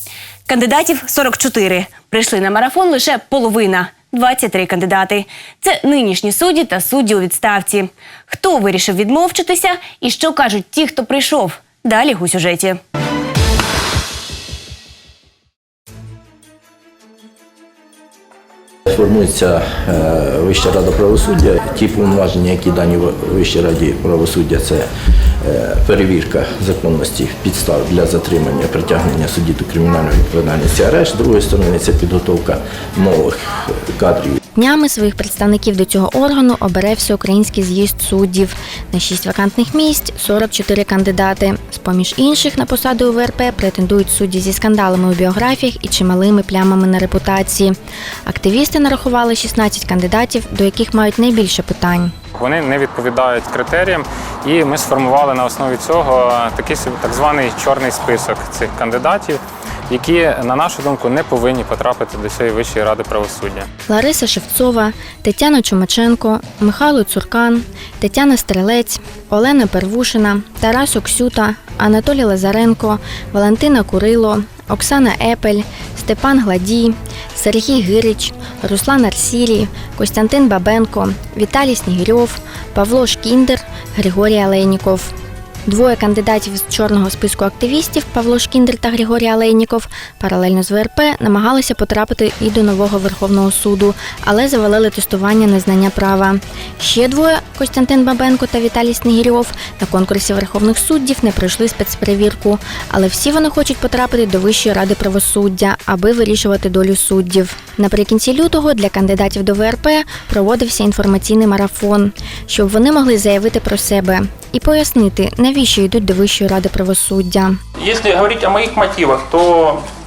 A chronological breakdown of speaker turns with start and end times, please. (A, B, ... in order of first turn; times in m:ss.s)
0:00.4-0:12.8 A
0:18.9-0:24.9 B
0:25.4-0:34.4 B
0:34.5-0:52.1 C
0:52.3-1:03.7 D
1:03.9-1:25.1 C
1:25.6-1:57.6 C
1:57.8-1:59.8 E